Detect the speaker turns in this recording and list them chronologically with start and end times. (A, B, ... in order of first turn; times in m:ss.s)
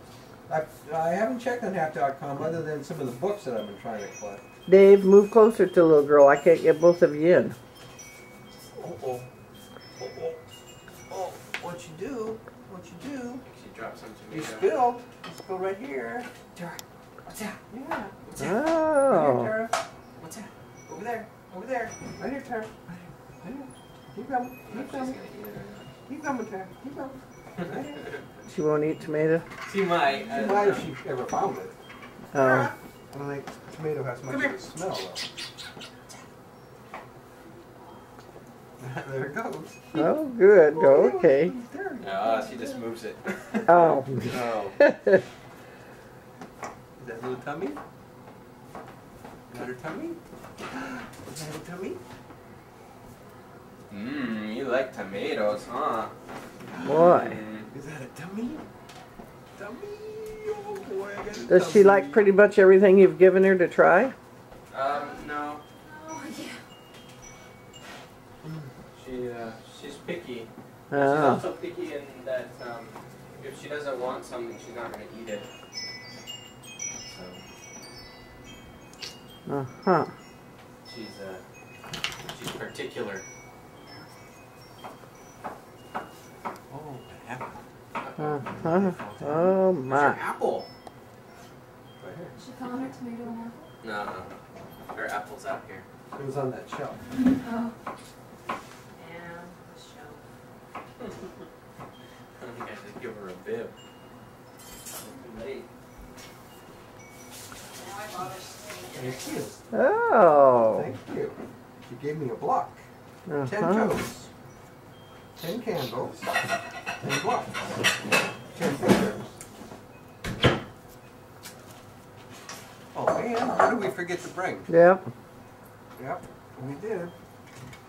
0:00.5-0:04.4 A
0:04.7-0:07.6 B
0:08.8-0:09.3 A
0:10.0-0:10.4 A
0:11.1-0:13.4 A
0:13.4-0:14.7 C
0:14.3-0:19.7 A
0:18.4-0:19.5 B
0:20.2-0:20.5 C
0:20.9-0:21.3 A
0:21.3-0:21.9 C
0:22.1-0:25.2 A
0:24.7-0:25.9 C
0:26.1-0:28.1 A
0:28.5-0:29.5 B
0:29.6-0:30.9 C
0:30.3-0:31.7 A
0:32.3-0:32.7 B
0:32.4-0:32.7 C
0:33.1-0:35.2 A
0:34.3-0:34.6 C
0:38.8-0:40.1 A
0:40.0-0:41.6 B
0:40.7-0:42.3 A
0:42.0-0:44.7 C
0:43.7-0:45.2 B
0:47.0-0:47.8 A
0:49.5-0:50.2 A
0:50.7-0:52.0 A
0:53.9-0:56.1 C
0:56.6-0:57.1 A
0:56.8-0:57.4 B
0:57.0-0:57.7 C
0:57.7-0:58.6 A
0:59.6-1:02.3 A
1:01.5-1:04.2 B
1:04.7-1:05.6 C
1:04.8-1:06.6 D
1:08.4-1:08.7 A
1:08.9-1:15.5 C
1:10.9-1:11.5 B
1:17.0-1:17.4 C
1:19.5-1:20.1 B
1:20.8-1:21.4 C
1:22.3-1:23.2 C
1:26.7-1:27.5 A
1:28.0-1:30.7 C
1:28.2-1:30.2 B
1:32.0-1:32.3 A
1:32.4-1:33.6 D
1:33.8-1:34.3 C
1:34.9-1:35.9 C
1:36.2-1:37.0 A
1:37.2-1:37.8 D
1:39.0-1:40.2 D
1:42.4-1:43.8 C
1:45.0-1:45.6 C
1:47.7-1:49.4 D
1:48.9-1:49.6 A
1:49.7-1:50.9 B
1:50.7-1:52.8 A
1:53.3-1:54.0 B
1:53.4-1:54.3 A
1:55.4-1:56.3 A
1:57.0-1:57.6 A
1:58.5-1:59.3 A
2:02.9-2:04.7 A
2:04.7-2:05.1 B
2:06.0-2:07.1 A